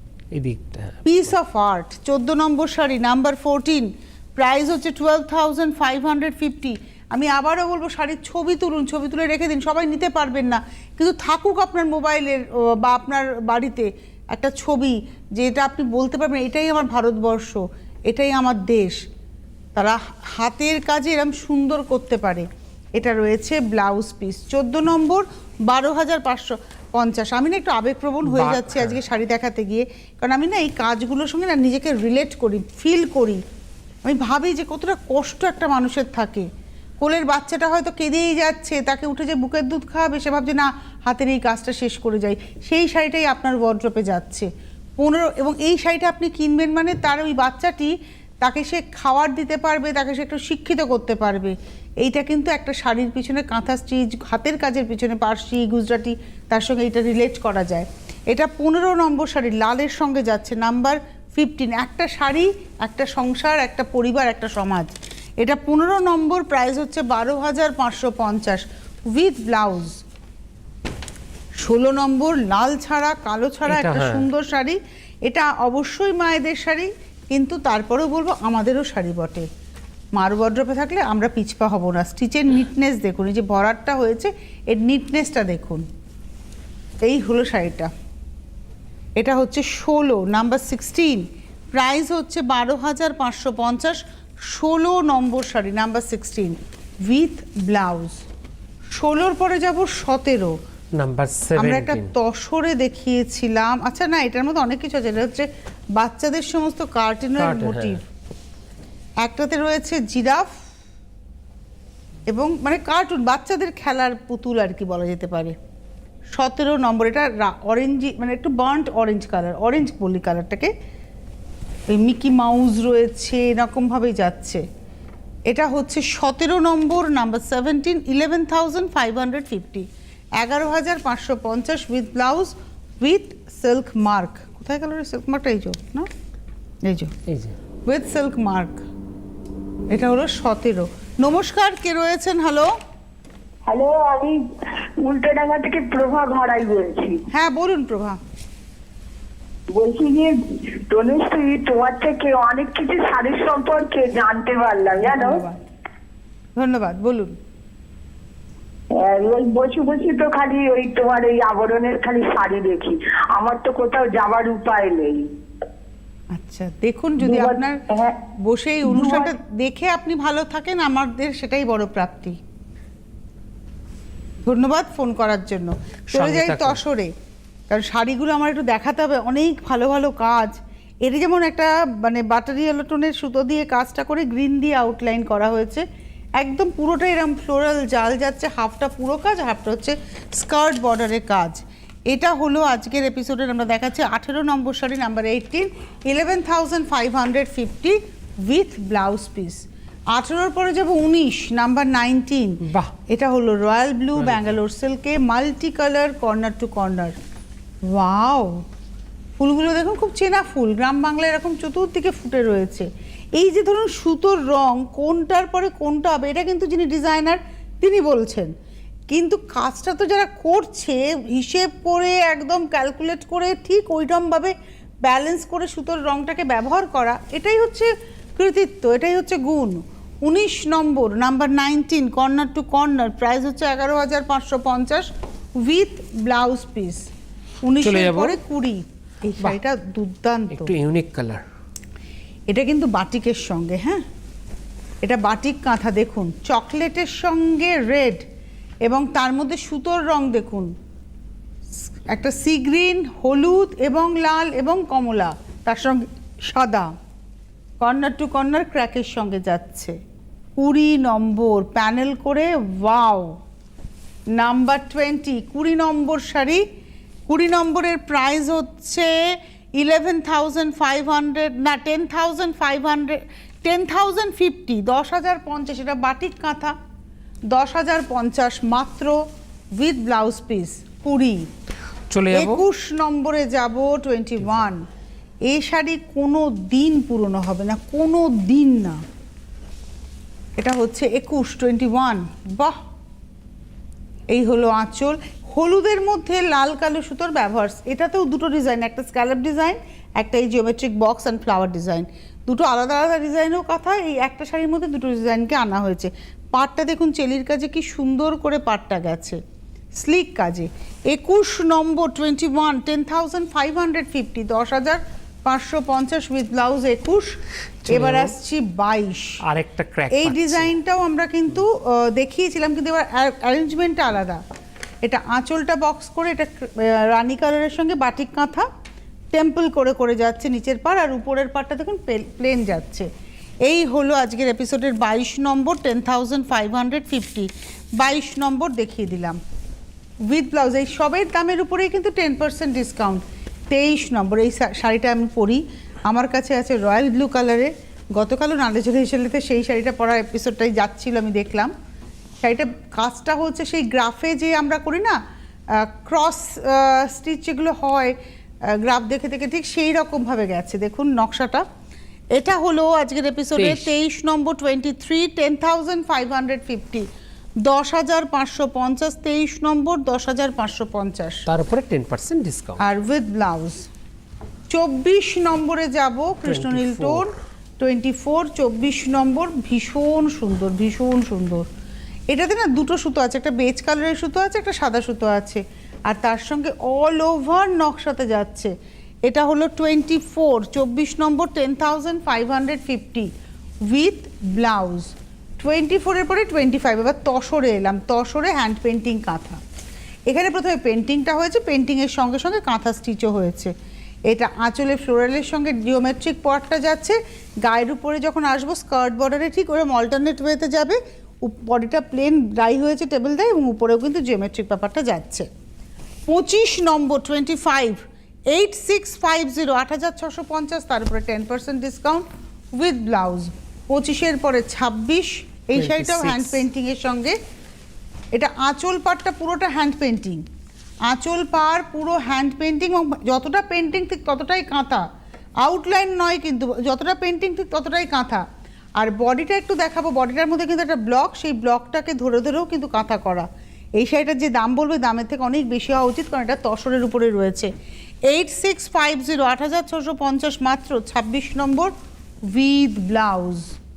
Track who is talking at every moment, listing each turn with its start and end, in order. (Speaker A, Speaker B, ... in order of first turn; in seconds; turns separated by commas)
Speaker A: 0.3-1.1, Speaker B: 1.1-19.0, Speaker B: 19.8-33.4, Speaker A: 28.2-29.0, Speaker B: 34.0-36.5, Speaker B: 37.0-70.0, Speaker B: 71.6-79.5, Speaker A: 73.7-74.3, Speaker B: 80.2-85.8, Speaker B: 87.0-87.9, Speaker B: 89.2-98.2, Speaker B: 98.9-100.6, Speaker A: 101.0-102.1, Speaker B: 101.6-108.0, Speaker A: 107.4-108.0, Speaker B: 109.2-110.5, Speaker B: 112.3-115.5, Speaker B: 116.3-120.7, Speaker B: 121.9-124.6, Speaker B: 125.5-129.8, Speaker B: 130.4-136.1, Speaker B: 136.8-137.1, Speaker A: 137.3-137.6, Speaker B: 137.9-138.8, Speaker B: 139.9-142.7, Speaker C: 143.7-144.4, Speaker C: 145.0-147.2, Speaker B: 147.3-148.2, Speaker C: 149.7-155.4, Speaker B: 155.0-155.6, Speaker B: 156.6-157.4, Speaker C: 158.9-165.3, Speaker B: 166.3-167.8, Speaker C: 167.2-168.2, Speaker B: 168.4-172.4, Speaker C: 168.9-169.3, Speaker B: 174.4-177.1, Speaker A: 176.1-176.8, Speaker B: 177.7-185.8, Speaker B: 186.4-207.2, Speaker A: 202.6-202.9, Speaker A: 204.2-204.6, Speaker B: 207.9-208.6, Speaker B: 209.4-218.5, Speaker B: 219.1-235.1, Speaker B: 235.6-237.1, Speaker B: 237.6-240.7, Speaker A: 237.8-238.4, Speaker A: 240.5-241.4, Speaker B: 242.5-244.0, Speaker B: 245.0-248.2, Speaker B: 248.8-250.7, Speaker B: 252.1-256.9, Speaker B: 257.8-259.9, Speaker B: 260.6-263.4, Speaker B: 264.4-266.6, Speaker B: 267.3-269.1, Speaker B: 269.8-276.7, Speaker B: 277.5-279.2, Speaker B: 279.8-281.5, Speaker A: 282.1-282.6, Speaker B: 282.3-284.9, Speaker B: 285.5-289.0, Speaker B: 290.6-292.8, Speaker B: 294.3-309.4, Speaker B: 310.0-317.4, Speaker B: 317.9-319.4, Speaker A: 317.9-318.4, Speaker A: 319.4-320.7, Speaker B: 320.1-324.4, Speaker B: 325.0-328.7, Speaker B: 329.3-333.1, Speaker B: 333.6-339.4, Speaker B: 340.3-351.7, Speaker B: 352.4-355.2, Speaker B: 355.7-358.1, Speaker B: 358.7-361.7, Speaker B: 362.3-367.1, Speaker A: 363.6-363.9, Speaker B: 367.6-371.4, Speaker A: 371.5-372.8, Speaker B: 372.8-373.9, Speaker B: 374.7-381.7, Speaker A: 376.4-377.3, Speaker B: 382.3-388.7, Speaker B: 389.3-393.3, Speaker B: 393.9-399.6, Speaker B: 400.3-403.7, Speaker B: 404.3-415.5, Speaker B: 416.3-427.4, Speaker A: 425.7-426.6, Speaker B: 428.3-430.4, Speaker B: 431.1-435.1, Speaker B: 435.6-438.5, Speaker B: 439.0-443.5, Speaker B: 444.0-447.7, Speaker B: 448.3-451.9, Speaker B: 452.5-453.7